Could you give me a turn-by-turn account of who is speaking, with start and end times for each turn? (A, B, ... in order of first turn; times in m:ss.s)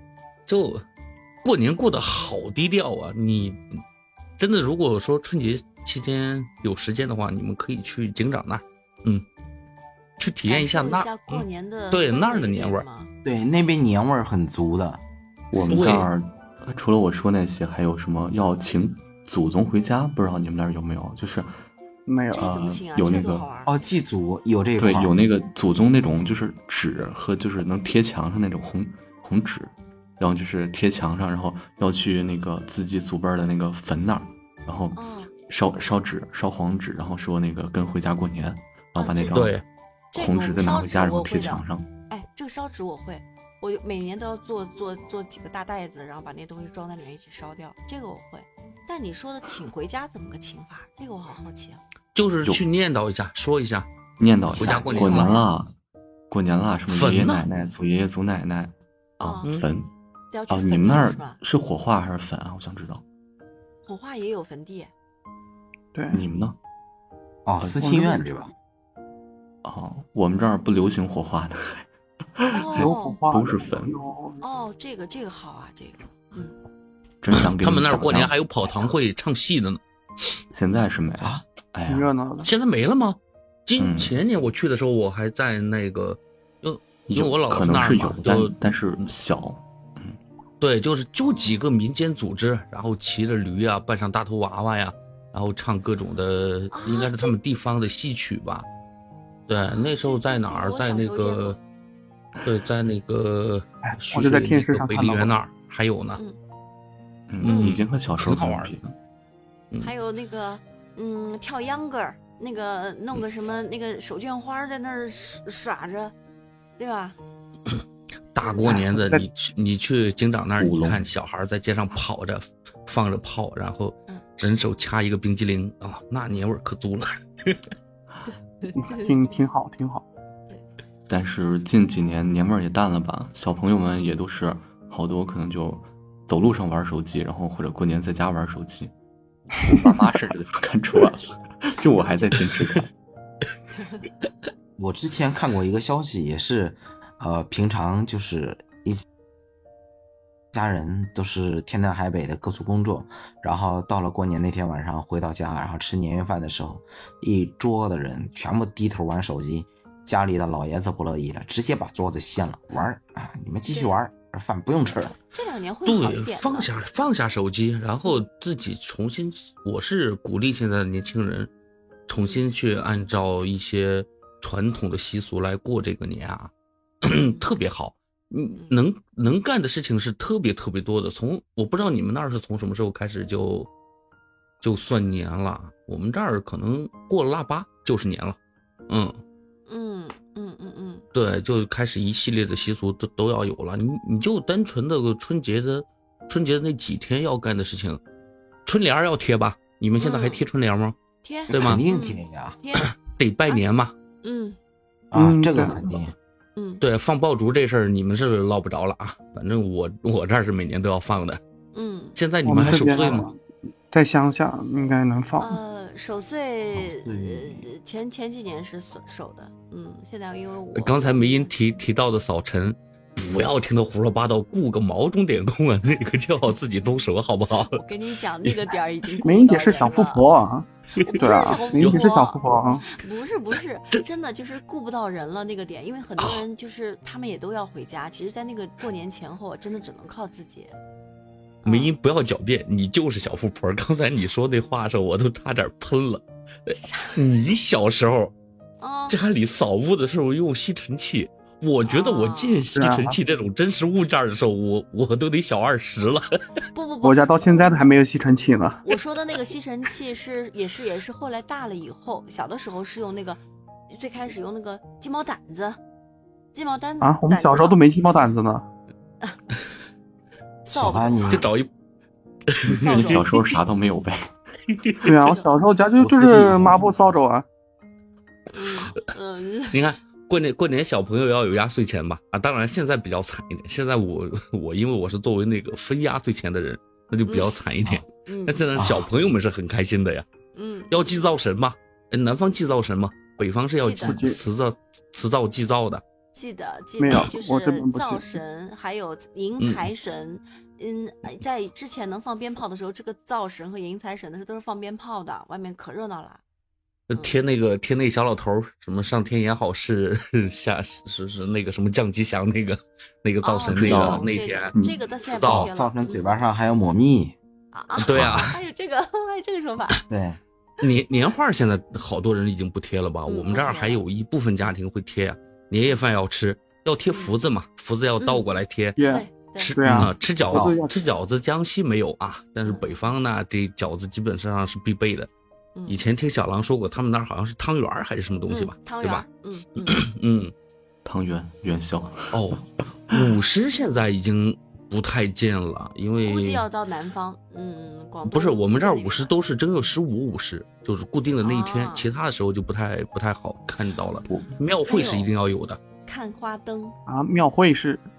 0:00.5-0:00.8 A
0:01.4-0:03.8 A
0:04.4-0:09.3 A
0:10.2-0:12.8 A
0:10.5-0:13.1 B
0:13.2-0:15.0 C
0:15.5-0:21.5 D
0:15.6-0:16.1 A
0:22.1-0:22.5 E
0:22.3-0:23.8 B
0:22.4-0:23.5 D
0:23.7-0:25.1 C
0:24.8-0:39.6 D
0:35.0-0:35.3 B
0:39.0-0:39.5 B
0:39.3-0:39.6 A
0:40.1-0:51.8 B
0:40.1-0:41.9 D
0:52.2-0:53.9 A
0:54.2-0:55.8 D
0:54.5-0:55.5 B
0:54.6-0:55.4 A
0:56.3-0:59.9 D
0:56.9-0:57.5 A
0:59.2-0:59.5 B
1:00.3-1:01.4 B
1:00.5-1:03.0 D
1:03.8-1:04.9 B
1:06.0-1:06.2 E
1:06.1-1:06.6 D
1:07.5-1:08.5 C
1:07.6-1:08.3 E
1:09.6-1:14.0 D
1:12.5-1:13.2 B
1:12.8-1:14.4 E
1:14.4-1:16.6 B
1:17.2-1:18.4 D
1:17.3-1:19.8 A
1:20.5-1:22.1 D
1:21.9-1:22.5 E
1:22.4-1:28.6 A
1:23.8-1:24.2 D
1:27.1-1:30.2 D
1:30.6-1:38.7 A
1:36.7-1:37.3 B
1:39.5-1:41.6 A
1:39.7-1:41.6 B
1:42.4-1:46.2 A
1:43.9-1:45.4 E
1:47.3-1:48.9 D
1:47.4-1:48.8 A
1:47.4-1:47.8 B
1:49.8-1:56.1 B
1:56.8-1:57.2 B
1:58.3-2:07.6 A
1:58.6-1:59.3 E
2:00.6-2:01.1 D
2:08.3-2:09.0 B
2:08.8-2:10.1 E
2:11.1-2:18.9 D
2:19.5-2:22.9 D
2:22.0-2:22.3 B
2:23.7-2:24.1 B
2:24.8-2:29.0 C
2:30.5-2:45.2 C
2:43.7-2:44.0 B
2:45.2-2:46.7 B
2:45.8-2:51.5 A
2:52.1-2:56.5 A
2:52.2-2:52.5 B
2:57.0-3:03.7 A
2:57.2-2:57.5 B
2:58.6-2:58.8 B
3:04.6-3:08.4 A
3:08.9-3:09.2 A
3:09.7-3:11.1 B
3:11.1-3:18.0 A
3:18.7-3:21.0 A
3:20.0-3:20.4 B
3:21.2-3:22.9 B
3:21.5-3:21.8 A
3:21.5-3:22.6 C
3:22.8-3:23.9 A
3:24.2-3:24.6 B
3:25.1-3:26.2 C
3:25.1-3:25.8 E
3:26.6-3:26.8 B
3:26.8-3:31.4 A
3:31.7-3:32.2 B
3:32.2-3:33.2 A
3:32.4-3:33.4 E
3:33.9-3:35.6 E
3:35.4-3:41.5 B
3:36.7-3:37.7 C
3:40.7-3:47.8 A
3:47.7-3:50.3 B
3:49.2-3:52.8 E
3:51.0-3:52.0 A
3:51.1-4:00.7 B
3:56.2-3:56.4 A
4:01.6-4:01.9 B
4:01.6-4:08.3 A
4:08.8-4:09.2 B
4:09.1-4:16.3 A
4:11.9-4:12.6 B
4:12.7-4:13.2 E
4:16.7-4:18.0 B
4:17.0-4:18.8 E
4:18.8-4:23.4 B
4:23.9-4:25.8 B
4:26.5-4:27.8 B
4:27.0-4:28.6 E
4:30.6-4:31.4 B
4:30.7-4:31.5 C
4:31.3-4:31.7 A
4:32.6-4:33.2 A
4:32.7-4:33.3 B
4:32.7-4:34.3 D
4:34.7-4:35.1 A
4:35.0-4:37.4 E
4:38.5-4:39.9 B
4:39.7-4:50.3 A
4:47.3-4:47.6 B
4:48.2-4:48.7 B
4:48.8-4:49.1 C
4:50.5-4:51.2 B
4:50.9-4:56.0 A
4:53.8-4:54.2 B
4:54.0-4:54.4 E
4:56.3-5:06.4 B
4:57.0-4:58.3 E
4:59.6-4:59.8 A
5:07.1-5:14.7 A
5:07.1-5:07.5 B
5:13.4-5:16.4 B
5:13.7-5:15.0 D
5:15.2-5:15.7 A
5:15.5-5:17.4 C
5:17.7-5:20.0 B
5:18.0-5:18.6 A
5:18.2-5:18.4 C
5:20.1-5:20.4 C
5:20.8-5:29.0 A
5:23.3-5:24.0 B
5:28.2-5:28.5 B
5:29.0-5:31.0 E
5:29.1-5:29.7 B
5:29.6-5:35.3 A
5:29.9-5:30.8 C
5:32.6-5:33.0 B
5:35.8-5:36.0 B
5:35.9-5:39.3 A
5:38.5-5:40.0 B
5:39.9-5:40.5 A
5:41.0-5:42.6 D
5:42.3-5:46.6 A
5:46.2-5:49.3 B
5:48.3-5:55.8 A
5:51.4-5:52.1 B
5:54.3-5:54.5 D
5:54.9-5:55.3 B
5:56.0-5:57.0 B
5:57.1-5:58.0 E